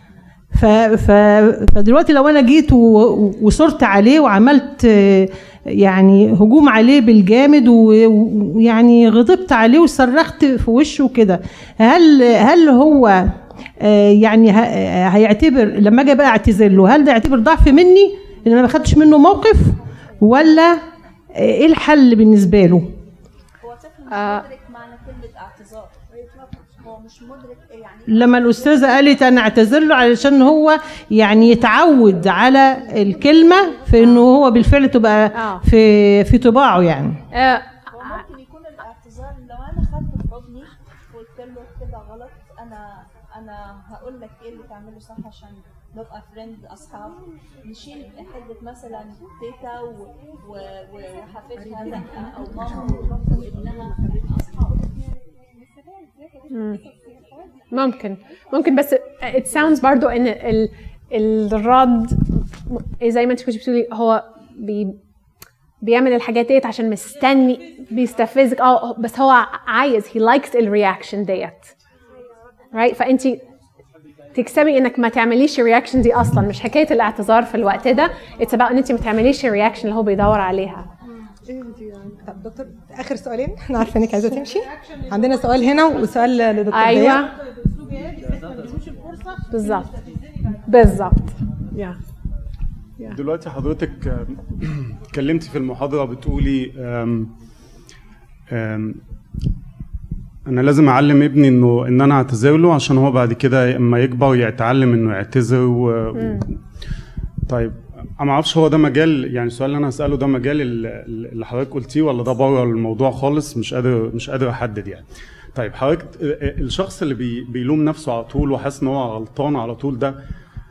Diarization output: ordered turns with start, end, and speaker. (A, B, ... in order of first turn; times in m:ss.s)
0:00.5-0:20.8 A
0:21.3-0:22.9 A
0:23.6-0:29.0 B
0:24.1-0:24.4 C
0:28.1-0:37.2 A
0:35.3-0:35.6 C
0:37.3-0:37.6 C
0:37.9-0:55.1 B
0:56.5-0:56.8 C
0:56.5-0:57.5 B
0:57.7-1:05.0 C
1:05.8-1:11.7 C
1:12.7-1:13.4 C
1:14.3-1:20.9 C
1:21.5-1:27.3 D
1:26.7-1:27.3 C
1:29.5-1:29.9 C
1:30.7-1:32.0 C
1:33.1-1:37.3 E
1:38.5-1:39.0 E
1:40.5-1:46.4 E
1:46.2-1:46.4 C
1:47.5-2:00.2 E